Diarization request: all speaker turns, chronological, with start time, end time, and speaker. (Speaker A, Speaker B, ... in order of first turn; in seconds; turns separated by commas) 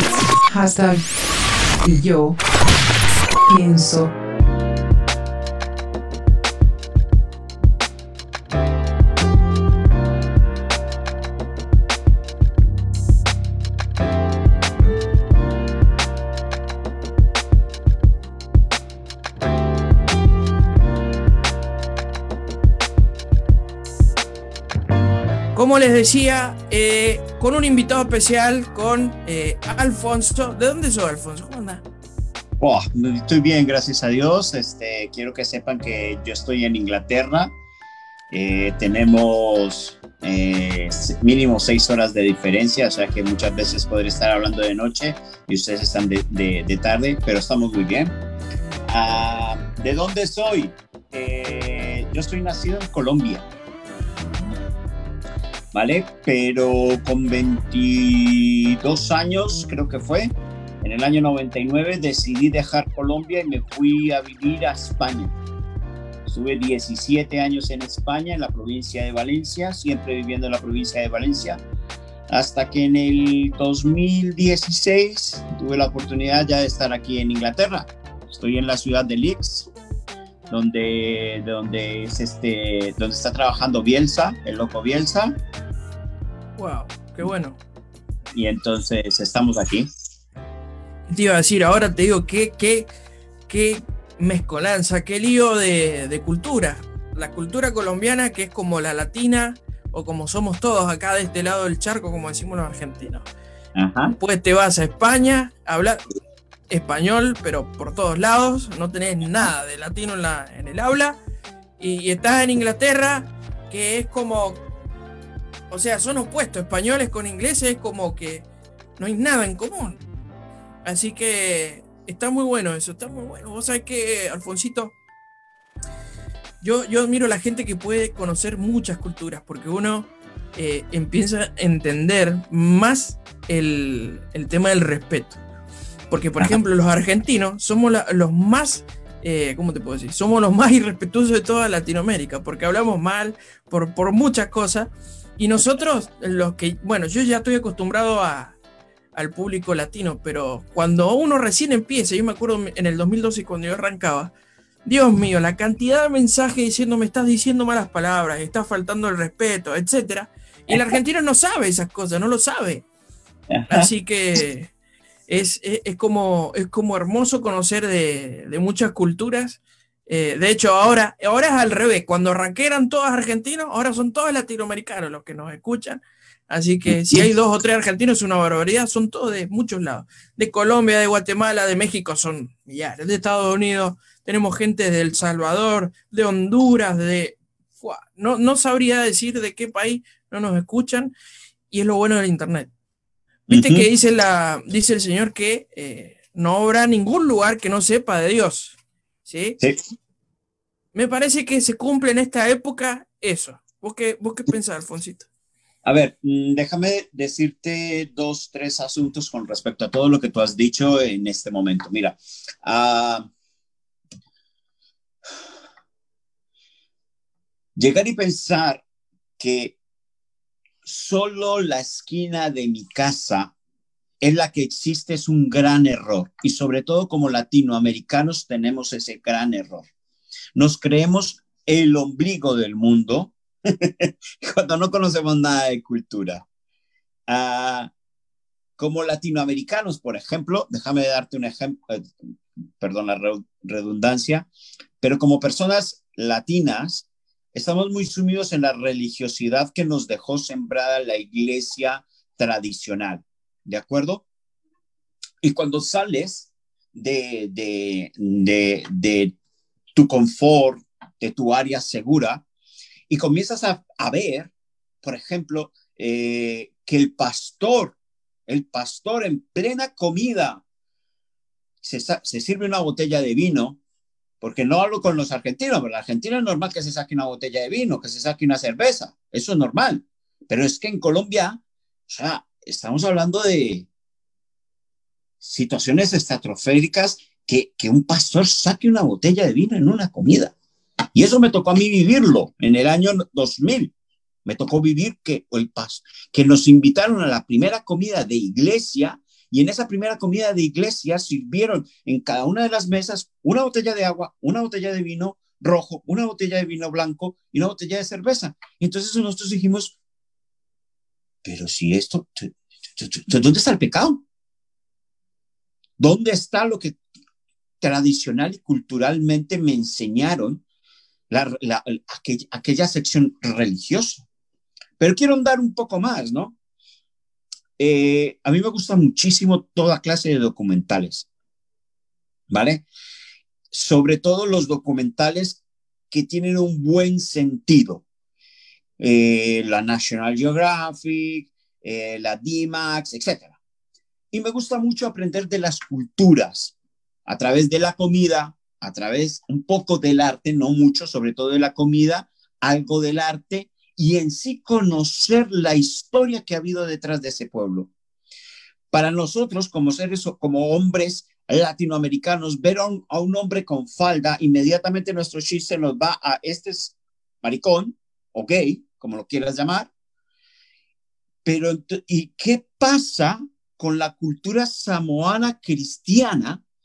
Speaker A: 0.5-1.1, Speaker A: 1.8-2.4, Speaker A: 3.4-4.1, Speaker B: 25.5-31.8, Speaker C: 32.6-37.5, Speaker C: 38.3-48.2, Speaker C: 48.9-53.5, Speaker C: 55.7-65.4, Speaker C: 66.2-71.6, Speaker C: 72.3-79.7, Speaker C: 80.5-85.4, Speaker B: 86.6-87.6, Speaker C: 88.3-89.9, Speaker B: 91.1-92.9, Speaker B: 93.5-103.2, Speaker C: 103.8-104.2, Speaker B: 104.1-106.1, Speaker B: 106.7-111.2, Speaker B: 111.8-114.6, Speaker B: 115.7-118.5, Speaker B: 119.0-120.0, Speaker B: 120.8-124.9, Speaker B: 126.6-135.4, Speaker B: 136.1-148.6, Speaker B: 149.2-154.3, Speaker B: 154.8-162.9, Speaker C: 163.5-163.9, Speaker B: 163.7-164.7, Speaker B: 165.3-191.1, Speaker C: 176.9-177.3, Speaker B: 191.7-192.7, Speaker C: 193.5-193.9, Speaker B: 193.5-199.6, Speaker B: 200.9-205.3, Speaker C: 205.8-213.3, Speaker C: 217.8-218.8, Speaker C: 219.4-219.8, Speaker C: 220.8-223.5, Speaker C: 224.2-229.9, Speaker C: 230.6-236.4, Speaker C: 237.3-237.9, Speaker C: 238.8-242.1, Speaker C: 242.8-244.5, Speaker C: 245.0-254.2, Speaker C: 255.4-259.4, Speaker C: 259.9-262.4, Speaker C: 263.1-264.5, Speaker C: 265.0-268.0, Speaker C: 268.5-270.6, Speaker C: 271.8-273.8, Speaker C: 274.4-283.9, Speaker C: 285.4-290.6, Speaker C: 291.1-293.9, Speaker C: 294.4-310.0, Speaker C: 311.4-314.2, Speaker C: 316.0-317.0, Speaker C: 317.8-320.6, Speaker C: 321.3-324.2, Speaker C: 325.0-326.6, Speaker C: 327.8-331.3, Speaker C: 332.5-332.9, Speaker C: 333.7-338.0, Speaker C: 339.0-343.6, Speaker C: 344.3-346.7, Speaker C: 347.3-357.9, Speaker C: 358.9-369.9, Speaker C: 371.4-376.6